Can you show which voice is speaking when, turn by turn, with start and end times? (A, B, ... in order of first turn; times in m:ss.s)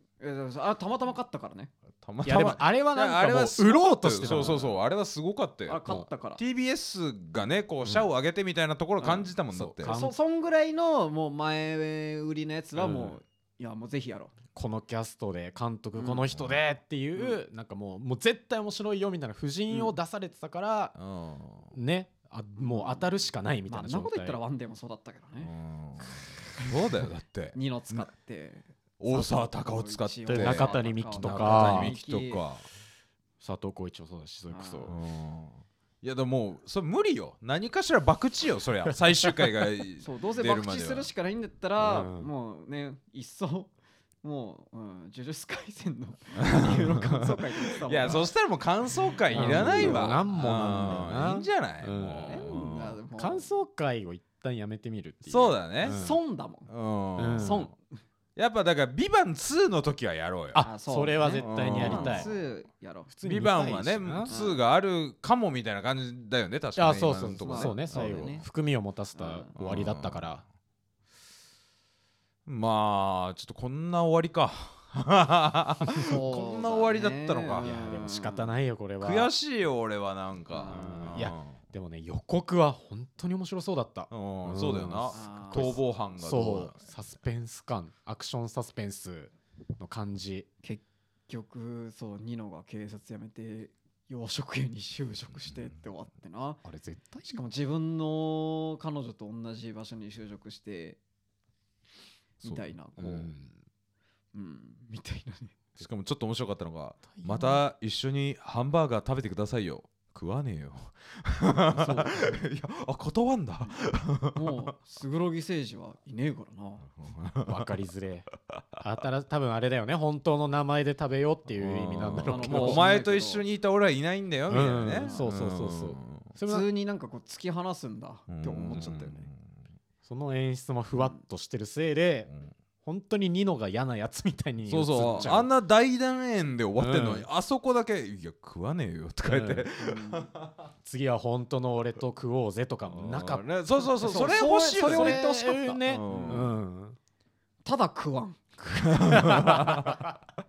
0:00.2-0:01.7 A
0:02.0-0:05.8 B
0:02.2-0:04.8 C
0:05.7-0:06.4 A
0:06.4-0:10.0 B
0:09.0-0:09.3 A
0:09.5-0:10.2 C
0:09.8-0:14.3 A
0:12.7-0:13.2 C
0:14.5-0:20.9 C
0:16.0-0:16.3 A
0:16.3-0:16.6 B
0:19.7-0:20.0 A
0:21.0-0:21.7 B
0:21.7-0:24.4 C
0:22.6-0:23.1 A
0:23.7-0:25.5 A
0:25.4-0:28.1 B
0:26.1-0:26.7 A
0:27.5-0:32.4 A
0:29.0-0:32.6 B
0:30.3-0:31.9 C
0:33.4-0:34.9 C
0:34.5-0:35.0 A
0:34.8-0:41.1 B
0:40.0-0:43.7 A
0:41.8-0:42.3 C
0:44.2-0:48.3 A
0:46.5-0:53.0 B
0:49.2-0:50.3 A
0:49.3-0:52.5 C
0:52.3-0:53.5 A
0:53.1-0:56.2 C
0:55.2-0:56.0 B
0:55.8-0:56.7 A
0:56.7-0:57.6 B
0:57.2-0:57.7 C
0:57.4-0:58.0 A
0:58.4-1:00.6 B
1:00.5-1:02.3 C
1:00.6-1:03.1 A
1:01.3-1:02.3 B
1:03.1-1:04.3 C
1:03.2-1:08.4 B
1:04.2-1:04.6 A
1:06.8-1:10.4 C
1:07.4-1:08.4 A
1:09.1-1:09.5 A
1:09.5-1:10.3 B
1:12.4-1:17.7 B
1:16.0-1:18.6 A
1:17.6-1:19.3 C
1:19.0-1:21.5 B
1:20.5-1:21.2 A
1:20.7-1:30.5 C
1:24.1-1:26.8 B
1:25.1-1:25.8 A
1:30.6-1:36.6 A
1:36.6-1:37.4 C
1:37.2-1:41.0 A
1:42.4-1:43.3 A
1:42.4-1:42.7 B
1:43.0-1:43.6 C
1:44.3-1:45.5 A
1:45.8-1:54.6 B
1:47.1-1:47.6 C
1:51.7-1:52.4 A
1:54.3-1:56.8 A
1:57.0-1:57.7 B
1:57.4-1:58.3 C
1:58.8-2:02.8 C
2:01.5-2:06.3 B
2:02.2-2:03.4 A
2:04.5-2:06.7 C
2:06.4-2:09.3 A
2:08.3-2:09.5 B
2:10.0-2:12.3 C
2:11.0-2:11.2 A
2:12.3-2:12.5 B
2:12.8-2:15.5 C
2:14.6-2:20.5 B
2:16.8-2:17.3 C
2:19.2-2:19.7 C
2:19.8-2:20.3 A
2:20.8-2:23.4 C
2:22.8-2:25.2 B
2:24.0-2:26.5 A
2:24.1-2:27.0 C
2:25.8-2:26.5 B
2:27.6-2:28.4 A
2:28.9-2:30.0 B
2:28.9-2:30.1 C